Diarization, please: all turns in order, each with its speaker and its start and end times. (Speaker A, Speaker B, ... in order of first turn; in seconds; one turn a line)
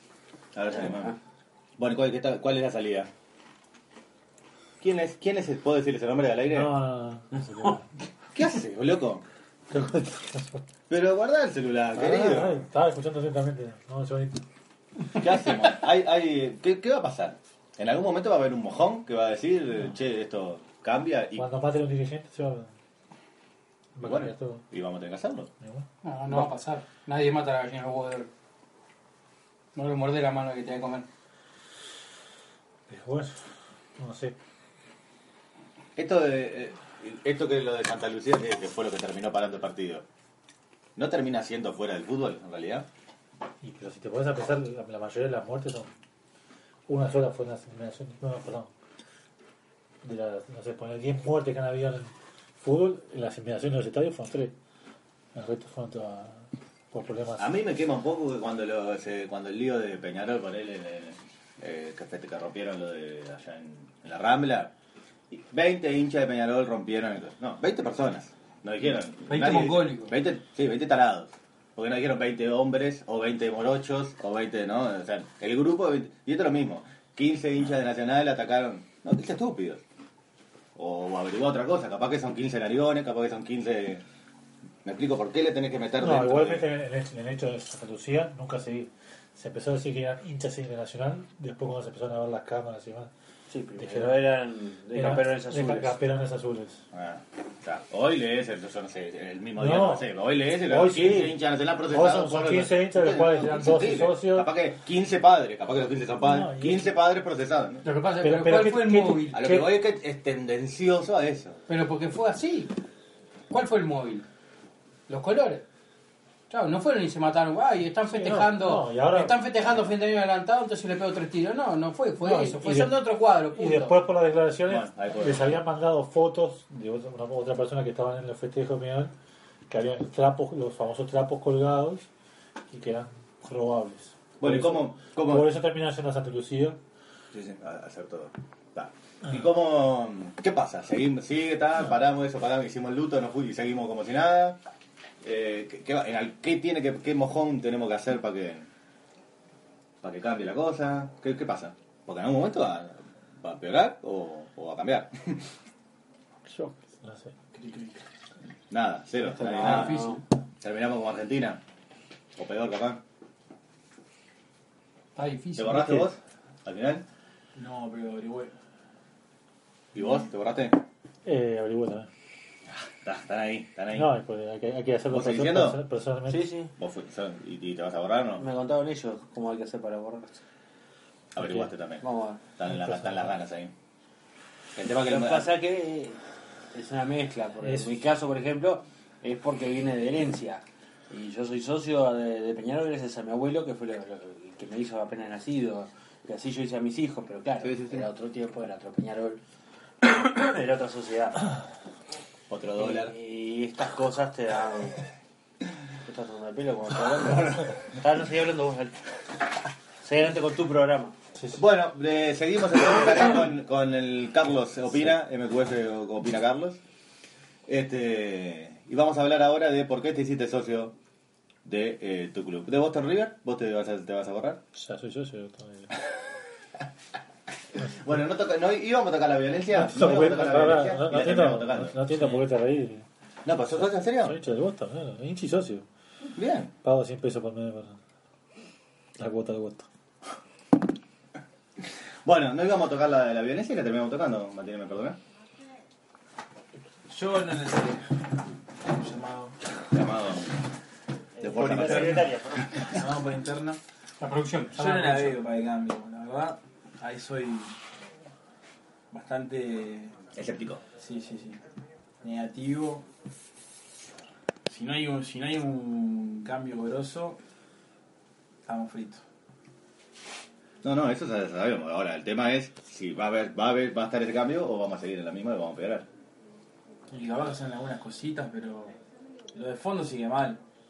Speaker A: 0.5-1.1
Speaker B: 0.9-1.1
Speaker A: 1.8-3.1
Speaker A: 4.8-6.8
Speaker C: 6.5-7.8
Speaker A: 8.3-9.2
Speaker C: 9.7-10.6
Speaker A: 10.9-12.6
Speaker C: 11.9-14.4
Speaker A: 15.2-21.5
Speaker C: 21.4-22.7
Speaker C: 23.9-24.6
Speaker A: 24.0-25.5
Speaker C: 25.6-26.4
Speaker D: 26.0-28.3
Speaker D: 29.8-31.1
Speaker C: 32.9-33.4
Speaker C: 34.0-34.4
Speaker A: 36.0-40.0
Speaker A: 41.0-42.9
Speaker C: 43.6-45.9
Speaker C: 46.9-48.7
Speaker C: 50.0-54.5
Speaker C: 55.4-57.5
Speaker A: 57.4-64.7
Speaker A: 65.3-79.8
Speaker D: 69.3-70.1
Speaker A: 80.8-84.0
Speaker A: 84.8-86.7
Speaker C: 86.0-93.1
Speaker B: 93.5-96.0
Speaker C: 93.8-94.3
Speaker C: 95.0-96.8
Speaker A: 96.9-107.8
Speaker C: 99.6-104.5
Speaker C: 106.3-106.7
Speaker D: 107.8-109.4
Speaker C: 108.2-109.7
Speaker A: 109.3-111.6
Speaker D: 111.7-112.7
Speaker D: 113.5-114.3
Speaker D: 115.1-115.7
Speaker D: 116.5-124.0
Speaker C: 118.1-119.4
Speaker C: 122.2-129.1
Speaker A: 124.7-125.6
Speaker C: 129.7-132.1
Speaker C: 132.7-136.8
Speaker A: 134.4-135.5
Speaker A: 137.3-144.6
Speaker A: 145.2-148.7
Speaker A: 150.0-155.4
Speaker C: 156.5-157.3
Speaker E: 157.5-158.0
Speaker A: 158.7-160.1
Speaker B: 159.5-160.2
Speaker D: 159.7-160.0
Speaker A: 160.6-161.6
Speaker A: 162.4-163.0
Speaker D: 165.2-166.1
Speaker A: 165.6-167.1
Speaker E: 167.6-168.5
Speaker A: 169.9-170.8
Speaker C: 171.3-172.1
Speaker A: 173.0-174.1
Speaker C: 173.9-176.5
Speaker A: 175.1-175.8
Speaker B: 176.3-176.7
Speaker A: 176.8-178.5
Speaker B: 178.4-180.4
Speaker A: 181.3-182.0
Speaker C: 181.4-181.7
Speaker B: 182.0-182.4
Speaker A: 182.6-183.7
Speaker C: 182.7-183.3
Speaker A: 184.8-185.5
Speaker B: 185.0-186.2
Speaker B: 186.7-199.4
Speaker C: 187.6-187.9
Speaker A: 197.6-198.1
Speaker B: 200.0-201.4
Speaker A: 202.5-203.1
Speaker B: 202.8-205.0
Speaker B: 206.1-208.9
Speaker B: 210.0-211.2
Speaker A: 211.5-216.8
Speaker A: 217.7-220.9
Speaker A: 221.7-224.6
Speaker C: 224.8-225.9
Speaker A: 227.8-232.4
Speaker C: 229.7-233.1
Speaker A: 233.4-234.4
Speaker C: 233.8-235.9
Speaker A: 236.3-236.7
Speaker C: 236.8-238.0
Speaker C: 239.2-239.9
Speaker A: 242.2-245.2
Speaker E: 247.1-248.2
Speaker E: 248.9-249.6
Speaker A: 249.9-250.6
Speaker A: 251.4-252.4
Speaker B: 251.4-252.9
Speaker E: 251.7-252.2
Speaker E: 252.8-253.8
Speaker D: 254.2-255.3
Speaker E: 254.8-257.7
Speaker E: 259.1-260.2
Speaker A: 260.4-260.8
Speaker E: 261.0-261.6
Speaker E: 262.2-263.1
Speaker E: 264.7-267.4
Speaker E: 268.7-269.2
Speaker A: 270.8-276.1
Speaker E: 277.1-279.0
Speaker E: 279.5-280.6